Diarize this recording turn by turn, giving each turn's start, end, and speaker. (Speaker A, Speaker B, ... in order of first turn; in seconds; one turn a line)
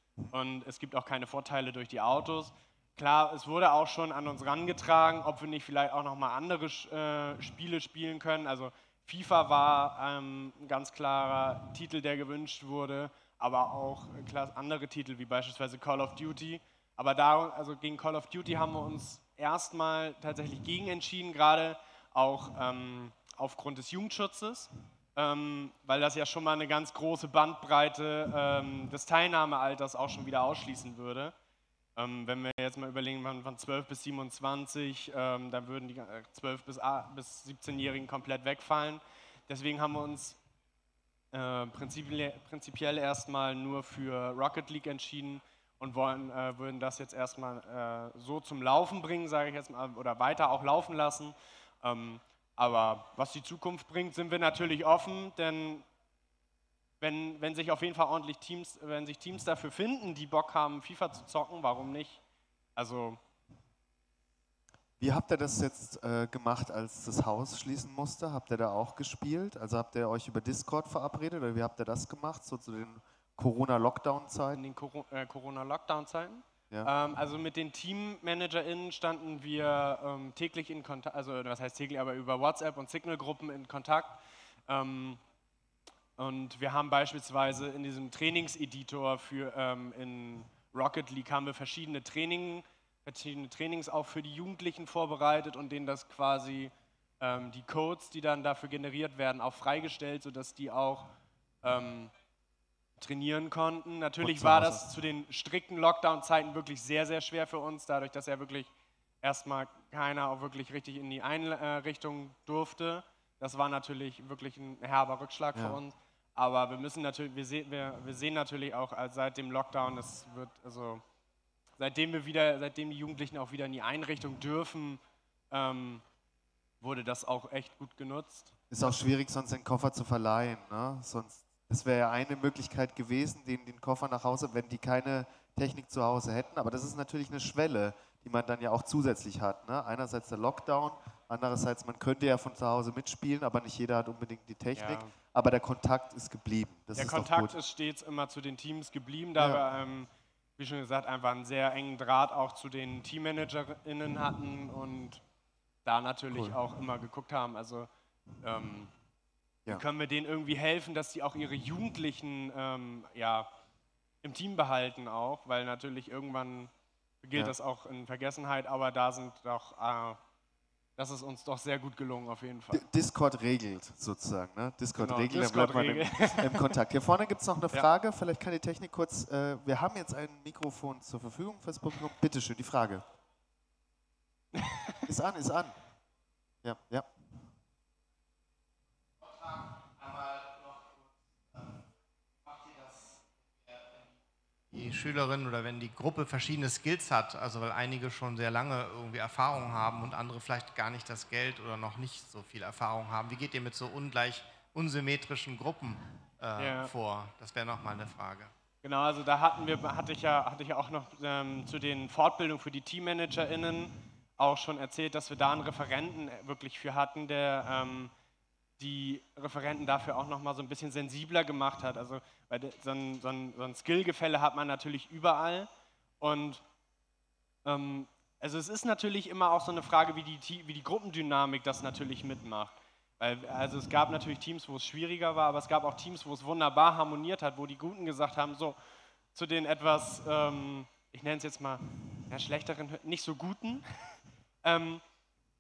Speaker A: 0.3-31.3
Speaker A: 31.9-40.4
Speaker A: 41.3-55.8
Speaker A: 57.0-62.2
Speaker A: 62.8-63.2
Speaker B: 65.0-74.6
Speaker A: 74.5-85.2
Speaker A: 86.2-101.1
Speaker A: 101.6-102.1
Speaker A: 103.0-108.7
Speaker B: 104.2-104.9
Speaker A: 109.2-121.0
Speaker B: 115.5-115.8
Speaker A: 121.8-126.0
Speaker A: 126.8-128.9
Speaker B: 128.7-147.5
Speaker A: 144.8-145.1
Speaker A: 146.9-155.2
Speaker B: 149.4-149.7
Speaker A: 155.8-157.9
Speaker B: 156.3-156.6
Speaker A: 158.4-158.9
Speaker A: 159.7-163.5
Speaker A: 164.2-166.7
Speaker A: 167.2-170.2
Speaker A: 171.0-172.8
Speaker B: 172.7-183.0
Speaker A: 175.0-176.7
Speaker A: 184.5-185.1
Speaker B: 185.0-185.8
Speaker B: 186.6-187.1
Speaker C: 194.7-208.5
Speaker A: 206.6-206.9
Speaker A: 208.8-218.1
Speaker A: 218.8-226.6
Speaker A: 227.6-238.8
Speaker A: 239.3-245.0